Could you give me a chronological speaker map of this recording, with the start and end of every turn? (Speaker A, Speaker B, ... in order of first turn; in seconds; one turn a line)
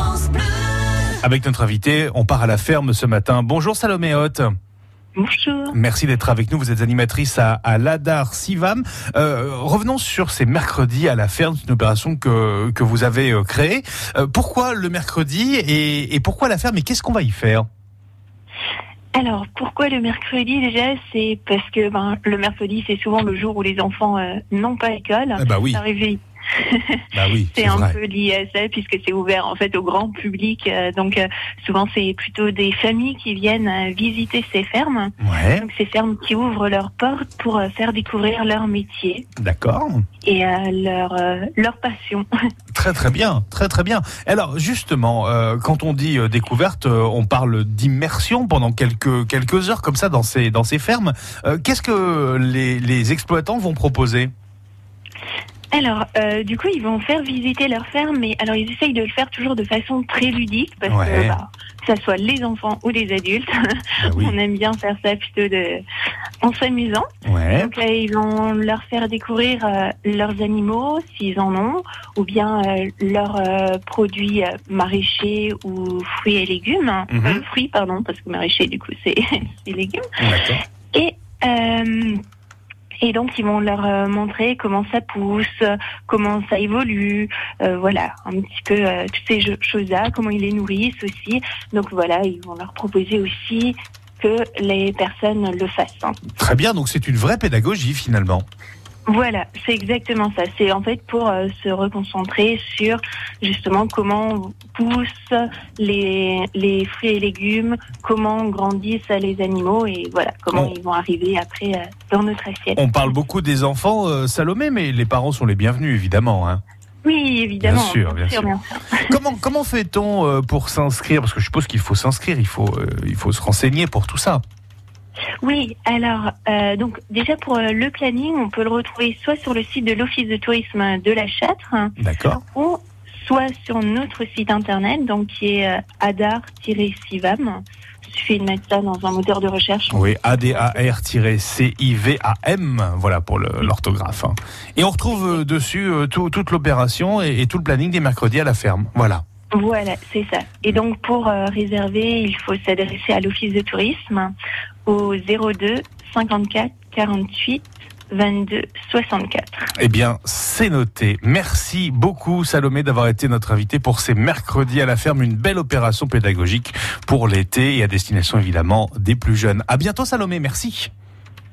Speaker A: 1.2-4.5
Speaker B: 5.2-5.8
Speaker A: 5.7-17.7
Speaker B: 19.1-39.2
Speaker A: 25.4-25.8
Speaker A: 27.1-28.0
Speaker A: 35.2-35.6
Speaker A: 39.4-40.0
Speaker B: 40.2-42.2
Speaker A: 42.7-54.3
Speaker B: 55.7-65.8
Speaker A: 60.9-61.4
Speaker A: 64.0-64.3
Speaker B: 66.4-80.0
Speaker A: 67.2-67.7
Speaker A: 77.1-77.4
Speaker A: 80.2-80.6
Speaker B: 80.9-82.2
Speaker B: 83.0-96.2
Speaker A: 96.4-98.5
Speaker B: 99.1-113.1
Speaker A: 112.8-116.6
Speaker B: 117.0-119.2
Speaker A: 117.6-118.5
Speaker A: 119.1-124.4
Speaker B: 125.4-131.9
Speaker A: 132.0-132.4
Speaker B: 132.5-140.8
Speaker A: 139.9-149.2
Speaker B: 145.1-145.4
Speaker B: 149.5-154.3
Speaker B: 154.8-159.7
Speaker A: 159.8-170.9